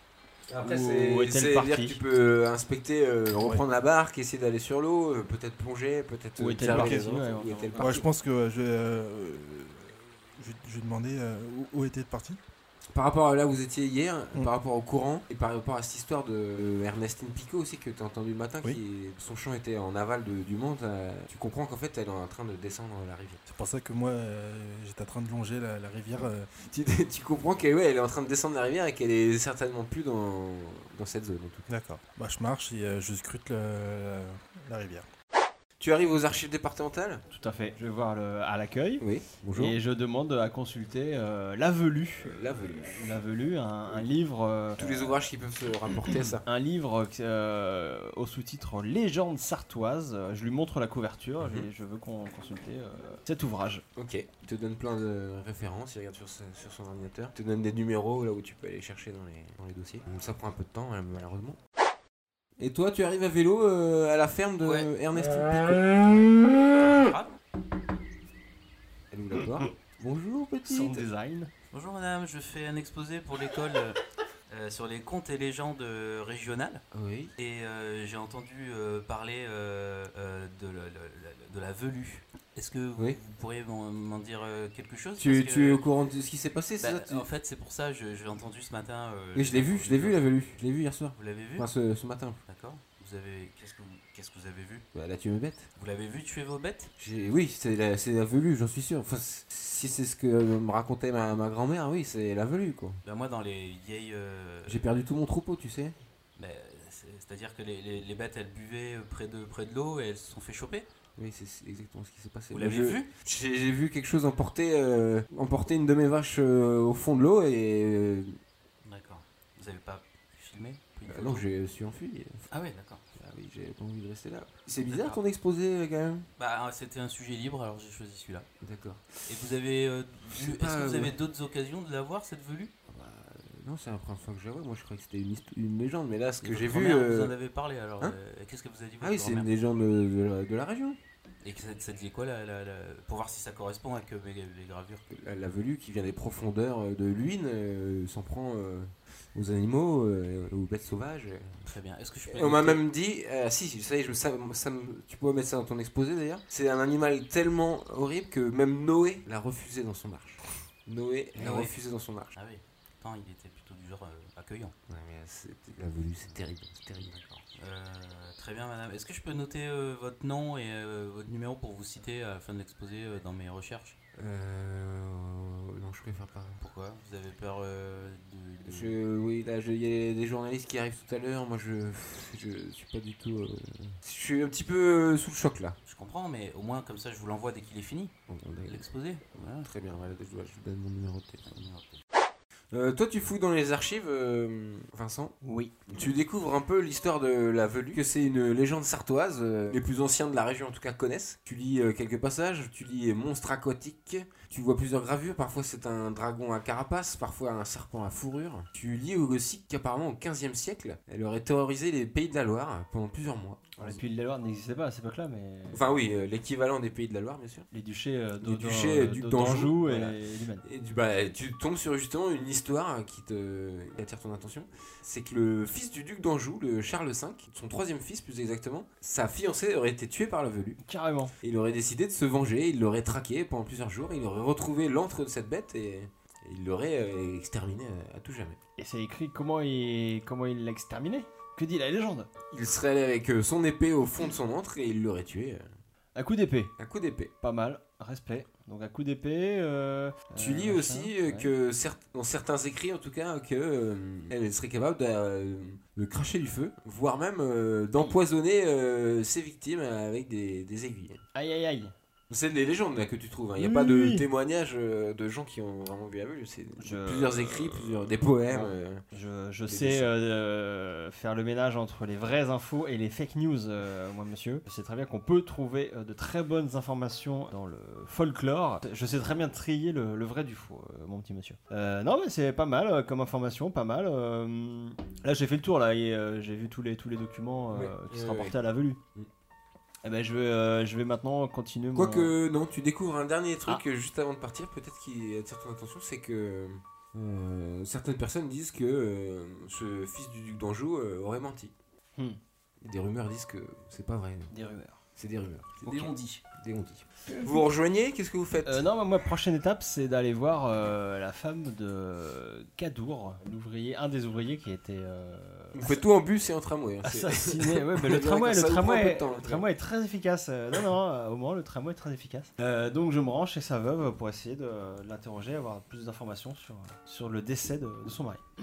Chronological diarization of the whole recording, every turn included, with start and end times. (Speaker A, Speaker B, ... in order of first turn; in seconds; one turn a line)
Speaker A: 0.5-8.1
Speaker B: 0.6-2.0
Speaker B: 6.4-7.9
Speaker C: 6.6-7.0
Speaker C: 7.8-12.4
Speaker A: 12.9-23.4
Speaker C: 23.5-26.5
Speaker A: 26.6-31.7
Speaker C: 31.7-35.1
Speaker A: 35.8-37.2
Speaker B: 37.3-45.1
Speaker A: 39.0-39.8
Speaker A: 42.2-43.1
Speaker A: 44.8-46.4
Speaker B: 46.5-53.8
Speaker A: 51.4-51.7
Speaker A: 54.0-61.6
Speaker A: 62.6-66.0
Speaker D: 64.6-64.9
Speaker D: 66.0-67.3
Speaker A: 69.1-71.1
Speaker B: 70.7-71.5
Speaker D: 71.7-76.8
Speaker A: 76.9-77.3
Speaker D: 77.4-85.8
Speaker A: 85.2-87.3
Speaker D: 86.8-90.2
Speaker A: 89.3-92.4
Speaker D: 91.2-91.7
Speaker D: 92.5-94.8
Speaker A: 94.9-95.7
Speaker D: 95.8-96.9
Speaker A: 97.0-103.0
Speaker D: 103.0-104.8
Speaker A: 104.7-106.0
Speaker D: 106.4-110.9
Speaker A: 111.2-118.4
Speaker D: 112.5-113.1
Speaker D: 118.8-121.5
Speaker A: 121.1-122.4
Speaker D: 122.5-123.0
Speaker A: 123.2-126.3
Speaker D: 124.9-125.2
Speaker D: 126.4-128.5
Speaker A: 128.6-129.1
Speaker D: 129.2-132.7
Speaker A: 130.3-131.2
Speaker A: 132.9-137.3
Speaker D: 136.4-139.5
Speaker A: 139.0-141.0
Speaker D: 141.4-145.0
Speaker A: 145.1-151.7
Speaker D: 151.6-152.8
Speaker A: 152.3-162.3
Speaker D: 161.4-161.7
Speaker D: 162.3-164.7
Speaker A: 164.9-167.4
Speaker D: 167.6-174.0
Speaker A: 174.2-176.6
Speaker D: 176.6-178.9
Speaker A: 178.7-185.8
Speaker D: 185.9-188.1
Speaker A: 188.3-188.8
Speaker D: 188.7-189.7
Speaker A: 189.6-191.5
Speaker D: 191.5-192.0
Speaker A: 192.7-195.4
Speaker B: 195.4-195.7
Speaker A: 195.9-214.0
Speaker B: 213.8-215.8
Speaker A: 215.7-217.7
Speaker B: 217.7-220.7
Speaker A: 218.4-230.8
Speaker B: 230.8-231.3
Speaker A: 231.4-238.6
Speaker B: 238.8-242.3
Speaker A: 242.5-245.7
Speaker B: 246.2-246.7
Speaker A: 246.8-247.3
Speaker B: 247.4-251.5
Speaker A: 250.4-261.2
Speaker B: 261.3-261.9
Speaker A: 262.3-269.0
Speaker B: 263.6-264.2
Speaker B: 266.8-289.0
Speaker A: 269.7-270.1
Speaker A: 287.7-288.5
Speaker B: 290.0-292.3
Speaker A: 291.9-301.7
Speaker A: 302.8-304.5
Speaker B: 304.5-305.0
Speaker A: 305.2-308.8
Speaker D: 305.8-306.4
Speaker B: 307.3-307.6
Speaker B: 308.6-316.0
Speaker A: 315.8-319.6
Speaker B: 317.0-328.4